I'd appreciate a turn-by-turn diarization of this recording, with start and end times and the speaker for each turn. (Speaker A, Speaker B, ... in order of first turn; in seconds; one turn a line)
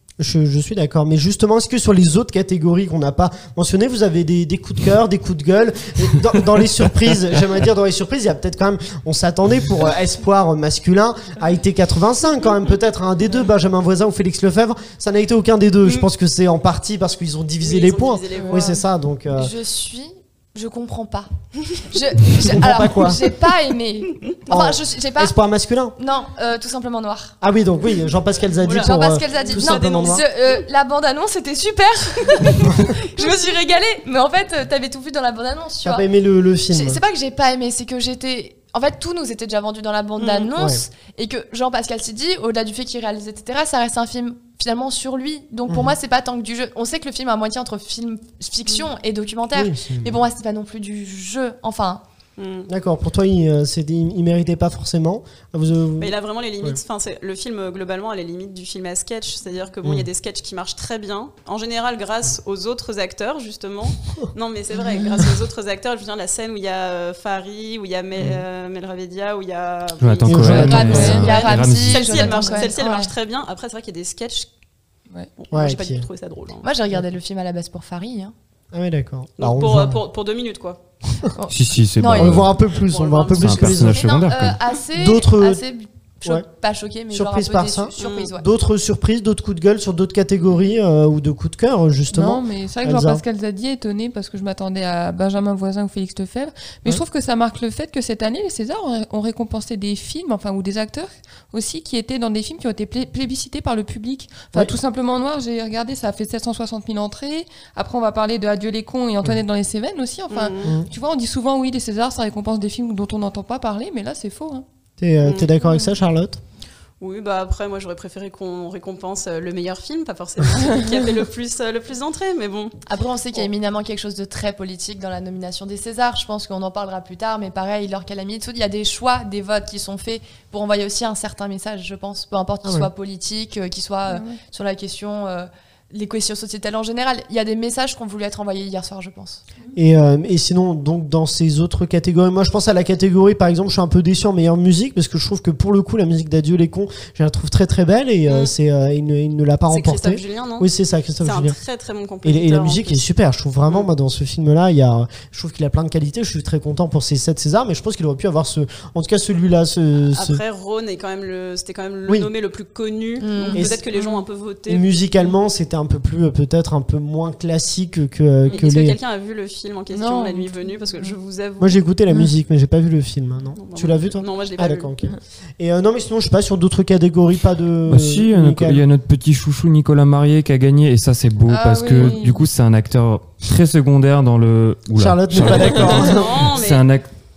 Speaker A: 0.2-19.5
Speaker B: 17.6-18.7
Speaker C: 18.4-21.3
Speaker C: 21.8-25.3
Speaker A: 22.4-23.3
Speaker A: 24.5-25.9
Speaker C: 26.0-27.4
Speaker A: 27.4-30.2
Speaker B: 28.6-30.2
Speaker C: 28.7-36.1
Speaker A: 35.8-37.0
Speaker C: 36.7-52.0
Speaker B: 40.2-40.5
Speaker A: 40.6-40.8
Speaker A: 45.7-46.0
Speaker A: 49.5-50.2
Speaker B: 52.4-52.7
Speaker A: 52.7-56.8
Speaker B: 56.0-74.5
Speaker D: 70.0-72.3
Speaker A: 70.3-71.3
Speaker C: 70.5-73.1
Speaker E: 70.8-71.4
Speaker E: 72.2-72.7
Speaker B: 75.4-76.7
Speaker A: 75.5-76.1
Speaker C: 76.6-78.3
Speaker A: 78.7-80.0
Speaker B: 79.4-80.8
Speaker C: 81.3-82.4
Speaker D: 81.5-82.6
Speaker A: 82.1-84.1
Speaker B: 82.8-84.0
Speaker D: 83.4-84.6
Speaker C: 83.9-88.5
Speaker A: 84.9-85.6
Speaker A: 87.1-93.2
Speaker B: 88.0-88.3
Speaker E: 92.1-114.7
Speaker B: 110.3-110.8
Speaker A: 110.6-110.9
Speaker A: 115.0-116.4
Speaker B: 115.2-115.5
Speaker B: 117.0-122.8
Speaker C: 122.9-139.4
Speaker A: 132.6-132.9
Speaker E: 134.1-134.4
Speaker A: 139.8-151.6
Speaker B: 149.7-150.7
Speaker B: 151.2-153.0
Speaker A: 152.2-160.4
Speaker B: 160.1-164.9
Speaker C: 163.2-163.7
Speaker A: 163.6-163.9
Speaker E: 163.9-164.2
Speaker A: 164.7-169.0
Speaker B: 168.5-171.8
Speaker E: 169.9-170.5
Speaker A: 171.6-178.8
Speaker B: 173.6-175.0
Speaker D: 177.9-187.1
Speaker E: 181.5-182.4
Speaker A: 184.9-186.6
Speaker B: 185.7-186.8